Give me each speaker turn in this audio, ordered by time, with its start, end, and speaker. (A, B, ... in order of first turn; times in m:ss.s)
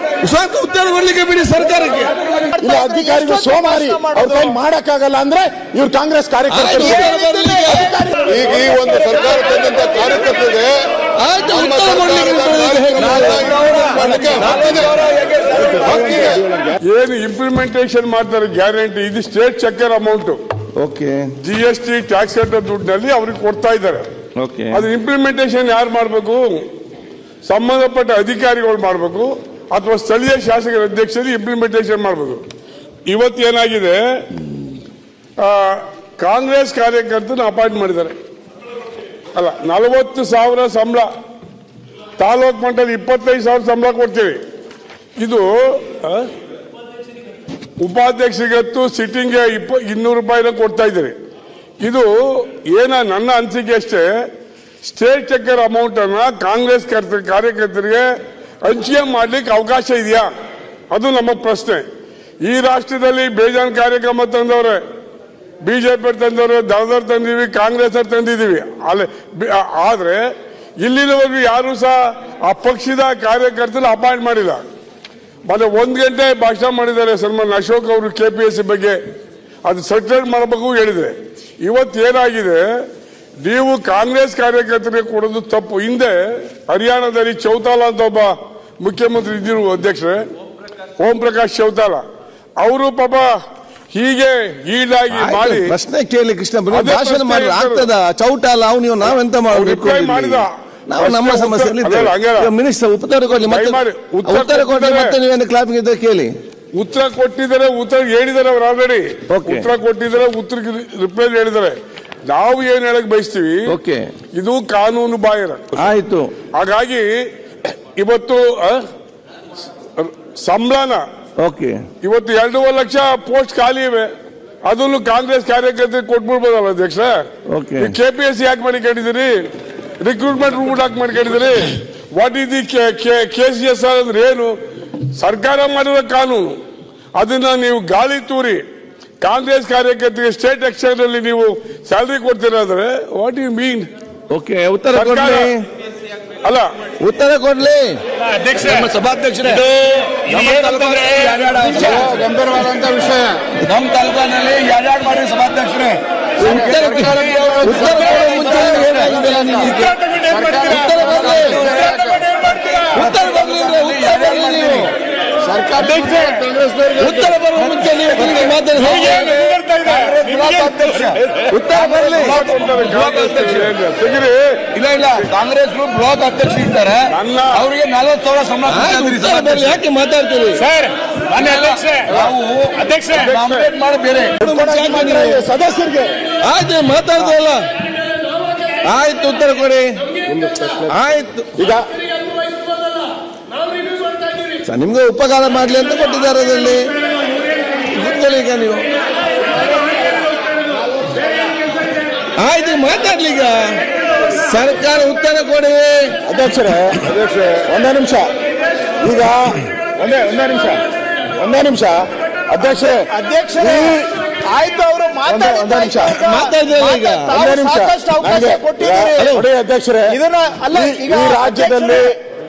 0:00.2-0:02.1 A
0:02.2-0:04.5 B
0:02.6-0:07.1 C
0:06.5-0:07.9 A
0:06.8-0:07.9 B
0:07.7-0:08.3 C
0:08.3-0:10.7 D
0:11.2-0:13.8 A
0:11.4-0:15.0 D
0:13.0-0:16.4 E
0:15.8-0:16.5 D
0:16.8-0:20.4 F
0:20.8-0:21.3 A
0:21.4-0:24.1 F
0:24.4-0:24.8 A
0:24.7-0:26.6 F
0:27.5-0:32.4 F
0:33.1-0:34.0 F
0:35.4-0:38.2 F
0:39.4-0:41.1 F
0:42.2-0:44.4 F
0:45.2-0:46.3 F
0:47.8-0:51.2 F
0:51.8-0:54.1 F
0:54.8-0:58.1 F
0:58.6-1:00.3 F
1:00.9-1:01.8 F
1:02.5-1:04.8 F
1:05.6-1:10.3 F
1:10.8-1:14.6 F
1:15.5-1:19.0 F
1:19.7-1:22.6 F
1:23.4-1:26.2 F
1:26.7-1:30.2 F
1:31.0-1:32.0 F
1:32.6-1:33.3 F
1:33.9-1:35.7 F
1:35.1-1:46.3 A
1:36.7-1:37.9 F
1:39.5-1:42.5 F
1:43.4-1:45.2 F
1:46.8-1:51.8 F
1:49.3-1:49.7 A
1:52.3-1:53.6 F
1:53.7-1:54.0 A
1:54.4-1:55.7 F
1:55.8-1:56.3 A
1:56.6-1:57.1 F
1:58.0-1:58.8 F
2:00.0-2:01.0 F
2:01.4-2:01.8 A
2:02.0-2:04.1 F
2:04.7-2:07.2 F
2:07.5-2:08.0 A
2:07.8-2:09.3 F
2:10.0-2:14.5 F
2:15.2-2:16.6 F
2:17.2-2:18.6 F
2:19.2-2:23.9 F
2:24.3-2:25.6 A
2:24.9-2:25.5 F
2:27.0-2:28.0 A
2:28.4-2:32.9 E
2:33.5-2:44.9 E
2:36.4-2:41.8 A
2:41.9-2:42.2 B
2:42.9-2:44.9 A
2:45.4-2:53.7 E
2:47.0-2:49.4 A
2:51.5-2:52.4 A
2:52.2-2:54.6 F
2:54.7-2:59.8 E
2:57.1-2:57.6 F
2:58.6-3:00.7 A
3:00.6-3:04.4 E
3:04.4-3:05.4 A
3:04.4-3:06.1 C
3:06.4-3:07.6 A
3:08.9-3:09.9 A
3:10.5-3:10.8 C
3:10.9-3:11.5 A
3:11.6-3:11.9 C
3:14.6-3:16.9 A
3:17.9-3:18.8 A
3:22.4-3:26.1 A
3:26.3-3:27.0 C
3:27.0-3:27.6 D
3:27.6-3:28.3 C
3:29.0-3:30.8 C
3:31.4-3:34.1 C
3:33.1-3:39.4 B
3:35.3-3:36.2 C
3:36.2-3:37.3 A
3:37.4-3:40.2 C
3:39.2-3:39.4 A
3:40.1-3:42.2 B
3:40.7-3:42.1 C